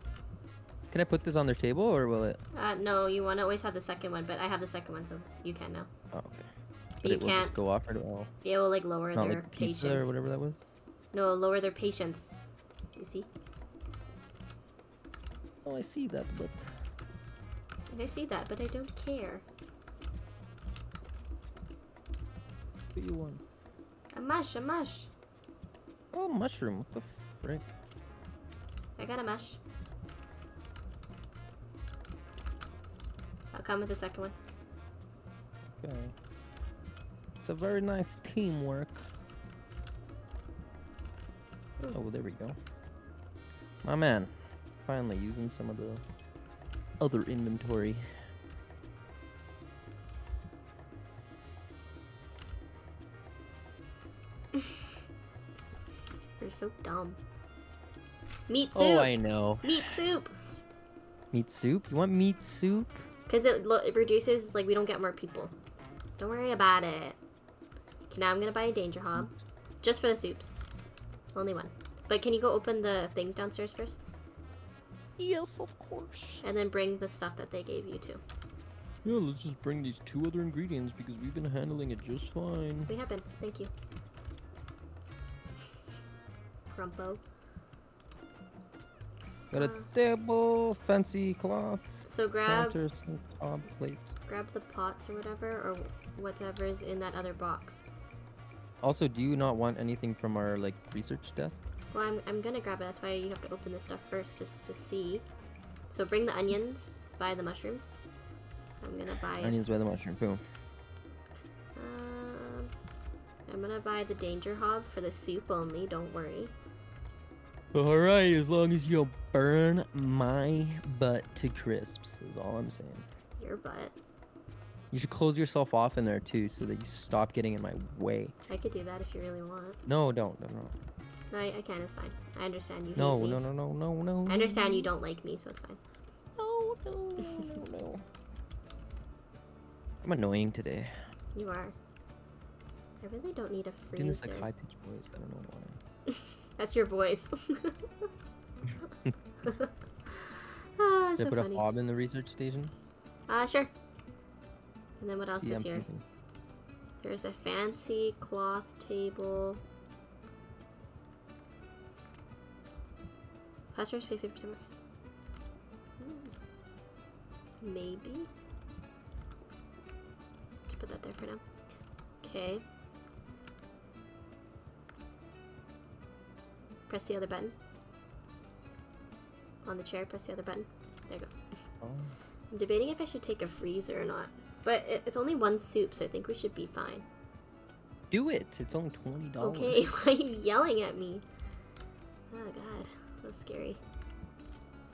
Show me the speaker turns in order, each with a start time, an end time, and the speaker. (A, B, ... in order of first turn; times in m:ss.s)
0:00.9-0:02.4 A
0:02.5-0:05.9 B
0:06.1-0:06.5 A
0:07.0-0:07.5 B
0:07.0-0:08.3 A
0:08.4-0:10.1 B
0:09.1-0:10.6 A
0:11.1-0:13.3 B
0:15.6-0:16.8 A
0:17.9-0:19.4 B
0:22.9-0:23.4 A
0:24.1-0:25.1 B
0:26.1-0:27.7 A
0:29.0-0:29.6 B
0:33.5-0:34.4 B
0:35.7-0:36.1 A
0:37.4-0:39.1 A
0:41.9-0:42.6 A
0:43.8-0:44.3 A
0:44.8-0:46.0 A
0:47.0-0:48.1 A
0:56.4-0:57.2 B
0:58.5-1:00.3 B
0:58.7-1:00.0 A
1:01.3-1:03.0 A
1:03.3-1:05.5 B
1:06.2-1:07.2 B
1:08.1-1:10.6 B
1:11.3-1:14.0 B
1:15.2-1:16.4 A
1:16.4-1:18.2 B
1:19.0-1:22.9 A
1:22.9-1:23.7 B
1:26.7-1:27.2 B
1:29.5-1:34.1 A
1:29.5-1:29.9 B
1:32.0-1:32.8 B
1:34.3-1:37.8 B
1:38.8-1:41.6 A
1:41.9-1:45.2 B
1:45.9-1:47.9 B
1:48.8-1:49.7 B
1:49.4-1:50.4 A
1:51.7-1:52.7 B
1:53.5-1:56.5 B
1:57.7-2:03.1 A
2:03.4-2:03.9 B
2:04.9-2:08.3 A
2:08.5-2:09.8 B
2:09.8-2:10.8 A
2:11.3-2:13.4 B
2:13.0-2:14.9 A
2:14.2-2:15.8 B
2:16.4-2:18.0 A
2:20.0-2:21.0 A
2:21.3-2:21.7 B
2:23.0-2:24.5 B
2:23.9-2:25.8 A
2:26.1-2:28.0 B
2:29.4-2:31.6 B
2:31.2-2:32.7 A
2:33.3-2:33.7 B
2:35.0-2:35.8 B
2:35.4-2:36.0 A
2:37.0-2:39.6 B
2:43.7-2:44.6 B
2:46.0-2:46.3 B
2:47.6-2:48.3 B
2:50.7-2:51.4 B
2:52.2-2:52.6 B
2:56.9-2:57.6 B
2:59.6-3:01.3 B
3:01.8-3:02.2 A
3:02.5-3:07.0 B
3:08.1-3:09.9 A
3:09.4-3:11.2 B
3:12.3-3:13.8 B